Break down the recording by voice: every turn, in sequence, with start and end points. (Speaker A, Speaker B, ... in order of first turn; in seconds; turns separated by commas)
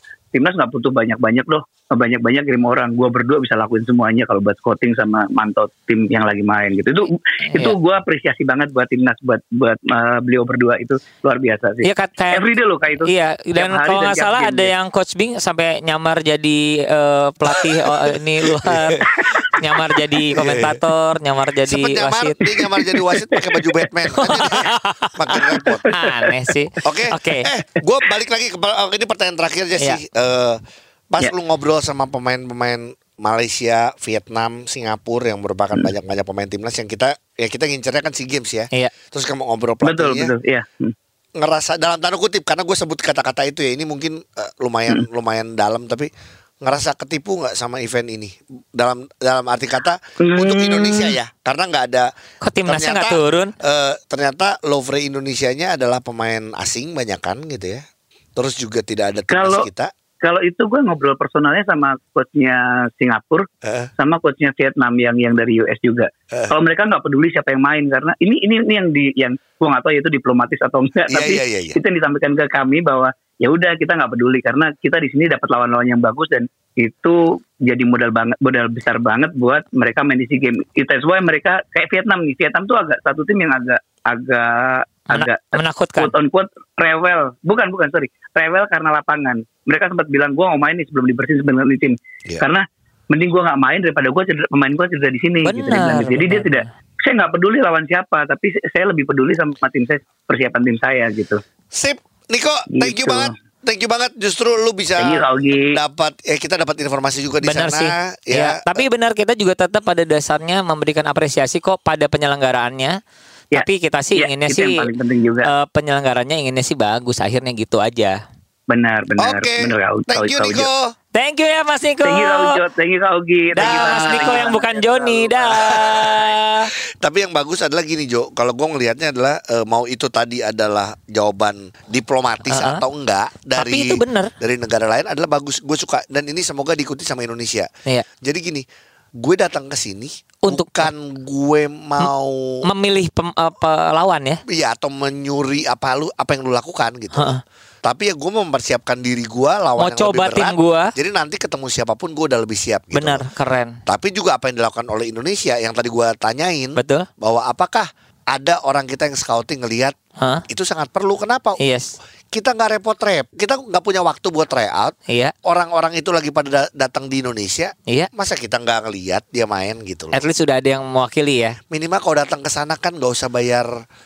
Speaker A: 0.3-14.7, Speaker B: 7.5-7.8, Speaker B: 11.8-12.5, Speaker B: 13.0-19.0, Speaker C: 18.4-19.3, Speaker B: 19.6-22.6, Speaker C: 20.3-20.8, Speaker C: 21.7-25.9, Speaker A: 22.6-23.7, Speaker B: 24.2-25.2, Speaker A: 25.3-26.3, Speaker B: 25.9-27.5, Speaker C: 26.8-30.6, Speaker C: 31.1-40.3, Speaker A: 39.8-40.9, Speaker C: 41.4-46.1, Speaker C: 46.6-52.1, Speaker A: 50.2-51.2, Speaker B: 52.4-53.5, Speaker C: 52.6-57.8, Speaker C: 58.4-59.9, Speaker A: 59.3-59.7, Speaker A: 60.2-63.5, Speaker C: 63.6-63.9, Speaker A: 64.0-101.4, Speaker C: 71.1-71.8, Speaker B: 85.1-86.1, Speaker B: 95.4-96.6, Speaker C: 101.7-108.8, Speaker A: 102.7-103.3, Speaker A: 105.0-105.8, Speaker B: 107.4-113.0, Speaker B: 113.5-114.8, Speaker A: 114.2-115.5, Speaker B: 115.5-118.2, Speaker A: 118.7-120.7, Speaker C: 119.2-120.8, Speaker B: 121.2-122.6, Speaker A: 122.0-125.6, Speaker B: 123.5-126.7, Speaker C: 123.6-124.5, Speaker C: 125.5-126.4, Speaker C: 127.0-137.7, Speaker B: 132.5-132.8, Speaker B: 133.6-134.3, Speaker C: 138.2-138.7, Speaker C: 139.2-142.6, Speaker B: 140.4-140.9, Speaker B: 142.7-144.4, Speaker C: 144.5-153.2, Speaker B: 147.1-147.4, Speaker B: 149.8-150.9, Speaker B: 152.9-153.8, Speaker C: 153.9-159.9, Speaker B: 156.8-157.1, Speaker C: 160.5-161.6, Speaker B: 161.6-161.9, Speaker C: 162.3-170.2, Speaker B: 170.1-171.6, Speaker C: 171.7-173.7